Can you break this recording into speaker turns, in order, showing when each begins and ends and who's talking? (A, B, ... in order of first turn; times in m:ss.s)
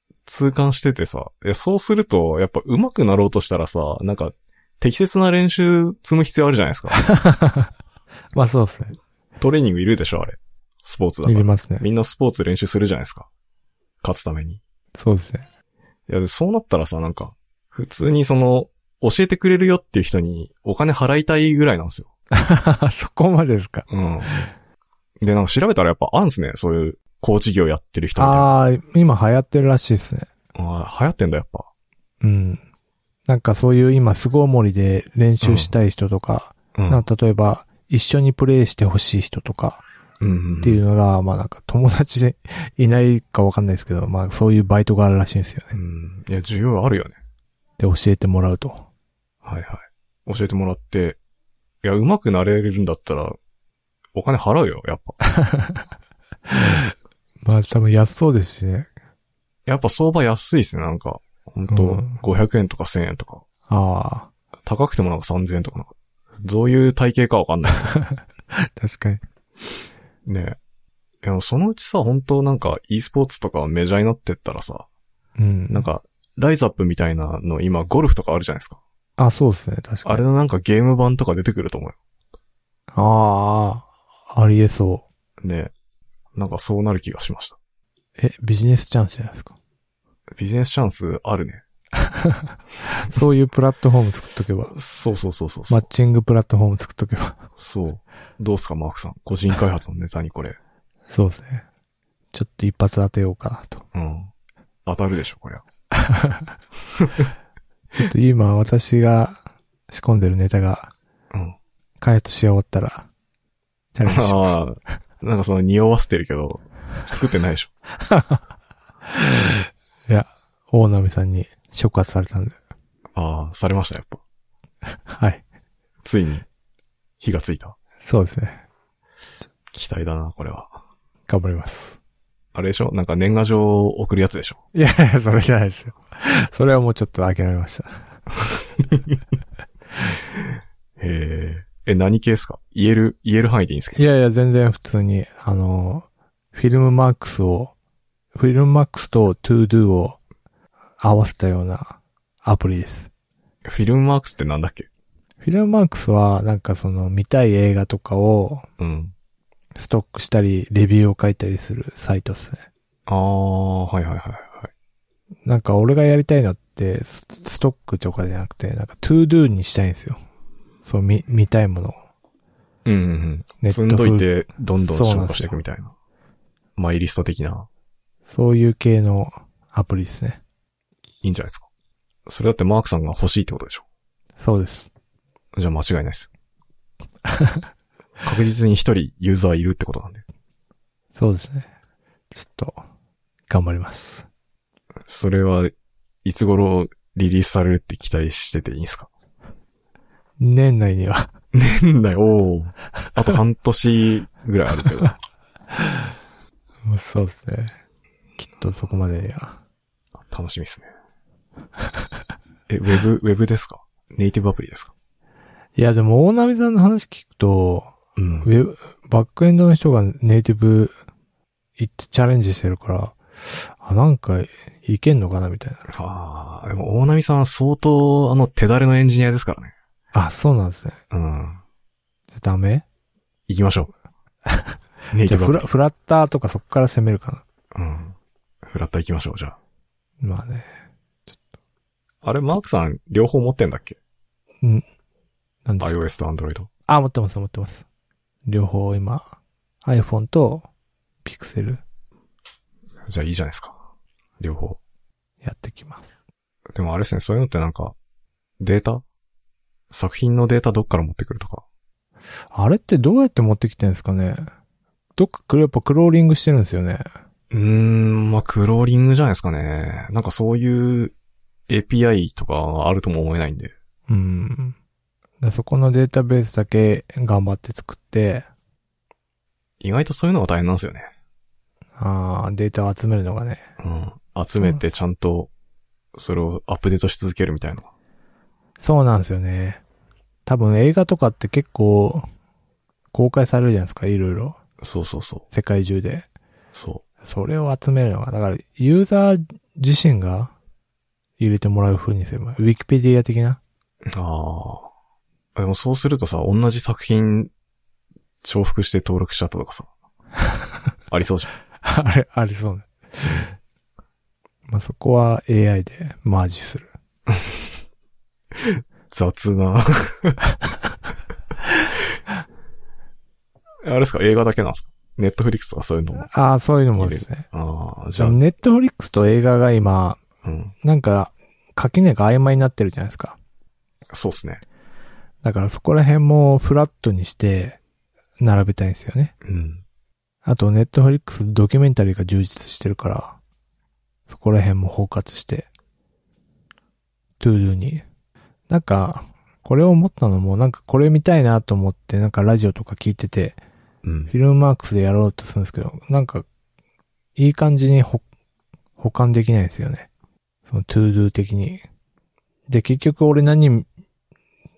0:00.3-0:07.0 A
0:06.9-0:07.7 B
0:08.3-0:09.0 B
0:09.4-0:13.3 A
0:11.2-0:11.9 B
0:14.0-0:14.6 A
0:15.0-0:15.5 B
0:16.1-0:22.1 A
0:22.4-0:24.5 B
0:23.9-0:24.5 A
0:25.2-0:28.5 A
0:28.2-0:30.3 B
0:30.5-0:31.7 A
0:32.2-0:32.6 B
0:33.3-0:39.8 B
0:35.4-0:35.7 A
0:36.8-0:37.0 A
0:40.2-0:40.8 A
0:40.6-0:45.8 B
0:45.7-0:47.2 A
0:47.8-0:48.9 B
0:49.4-0:51.2 A
0:51.8-0:53.4 A
0:54.1-0:55.2 A
0:55.2-0:55.9 B
0:56.5-0:56.9 B
0:57.4-0:58.9 B
0:59.7-1:03.4 A
1:01.7-1:02.2 B
1:03.7-1:04.3 B
1:04.7-1:07.9 A
1:07.9-1:09.2 B
1:10.3-1:10.6 A
1:11.2-1:14.9 A
1:15.4-1:15.9 B
1:15.7-1:18.8 A
1:19.2-1:20.2 B
1:20.0-1:22.0 A
1:22.9-1:25.1 B
1:25.4-1:25.7 A
1:26.4-1:27.6 A
1:28.2-1:29.5 B
1:30.4-1:31.6 A
1:32.1-1:32.4 B
1:33.0-1:34.8 B
1:34.7-1:35.9 A
1:35.7-1:37.4 B
1:37.6-1:40.6 A
1:41.1-1:41.6 B
1:42.3-1:43.8 B
1:43.9-1:44.3 A
1:44.9-1:45.6 A
1:46.0-1:46.5 B
1:47.0-1:47.3 A
1:48.0-1:50.9 B
1:51.3-1:51.6 A
1:52.0-1:53.1 B
1:54.0-1:54.6 B
1:54.1-1:57.7 A
1:58.0-1:58.4 B
1:59.1-2:02.6 B
2:03.2-2:04.2 A
2:05.1-2:05.4 B
2:06.0-2:06.5 A
2:07.2-2:07.8 A
2:08.0-2:08.6 B
2:09.7-2:10.8 A
2:11.3-2:12.0 B
2:12.5-2:14.6 A
2:14.7-2:18.1 B
2:18.8-2:19.1 A
2:21.0-2:24.0 A
2:24.0-2:27.7 B
2:28.4-2:30.2 B
2:31.0-2:33.1 B
2:33.6-2:34.9 A
2:35.4-2:38.7 B
2:38.8-2:39.1 A
2:39.8-2:42.7 B
2:43.1-2:44.7 A
2:45.4-2:50.2 B
2:50.8-2:52.0 B
2:52.8-2:55.9 A
2:53.6-2:55.6 B
2:56.8-2:57.7 A
2:58.3-3:00.4 B
3:01.2-3:01.7 A
3:02.3-3:03.8 A
3:04.4-3:04.9 B
3:05.6-3:06.3 A
3:07.3-3:07.6 B
3:08.2-3:10.2 A
3:11.1-3:11.7 B
3:12.3-3:12.8 B
3:13.5-3:14.3 B
3:15.1-3:15.7 A
3:16.2-3:19.1 A
3:20.4-3:21.3 B
3:21.5-3:25.2 A
3:26.9-3:27.7 B
3:28.4-3:29.6 B
3:30.2-3:30.9 A
3:32.7-3:34.9 A
3:35.8-3:41.0 B
3:38.2-3:38.5 A
3:41.8-3:45.9 B
3:45.9-3:49.7 A
3:50.1-3:51.0 B
3:51.1-3:51.6 A
3:52.3-3:52.8 B
3:53.5-3:53.9 A
3:54.5-3:57.4 B
3:55.1-3:55.7 A
3:57.7-3:59.6 A
4:00.2-4:00.7 B
4:02.2-4:04.0 A
4:05.7-4:06.1 B
4:05.8-4:06.7 A
4:06.9-4:07.8 B
4:08.5-4:09.3 B
4:09.8-4:10.7 B
4:11.2-4:11.8 B
4:13.1-4:13.8 A
4:14.4-4:14.8 A
4:15.4-4:16.1 B
4:16.7-4:18.0 A
4:18.6-4:19.0 A
4:19.9-4:21.6 A
4:22.5-4:24.5 B
4:25.2-4:27.1 B
4:27.5-4:31.1 A
4:31.7-4:33.7 A
4:34.1-4:34.8 B
4:35.4-4:38.5 B
4:39.8-4:41.1 A
4:42.0-4:43.7 B
4:43.8-4:45.5 A
4:46.2-4:47.9 A
4:48.8-4:49.8 B
4:50.5-4:52.3 B
4:53.1-4:54.6 B
4:54.8-4:55.4 A
4:55.5-4:56.3 B
4:56.7-4:57.0 A
4:57.2-5:00.5 B
5:01.4-5:03.6 B
5:04.1-5:04.9 A
5:05.6-5:07.5 A
5:08.4-5:09.9 A
5:11.1-5:11.5 A
5:11.8-5:13.4 B
5:14.7-5:16.9 B
5:17.3-5:17.7 A
5:18.5-5:20.4 A
5:23.8-5:26.3 A
5:26.2-5:27.5 B
5:27.0-5:28.4 A
5:28.2-5:30.2 B
5:30.4-5:30.7 A
5:30.8-5:33.4 B
5:34.1-5:34.6 A
5:35.4-5:37.8 B
5:38.4-5:39.3 B
5:39.4-5:39.8 A
5:40.4-5:43.4 B
5:44.3-5:45.7 B
5:47.4-5:48.0 B
5:48.7-5:53.6 B
5:54.0-5:54.3 A
5:54.3-5:56.5 B
5:57.4-5:58.2 B
5:59.0-6:00.1 B
6:00.7-6:01.8 B
6:02.7-6:03.9 B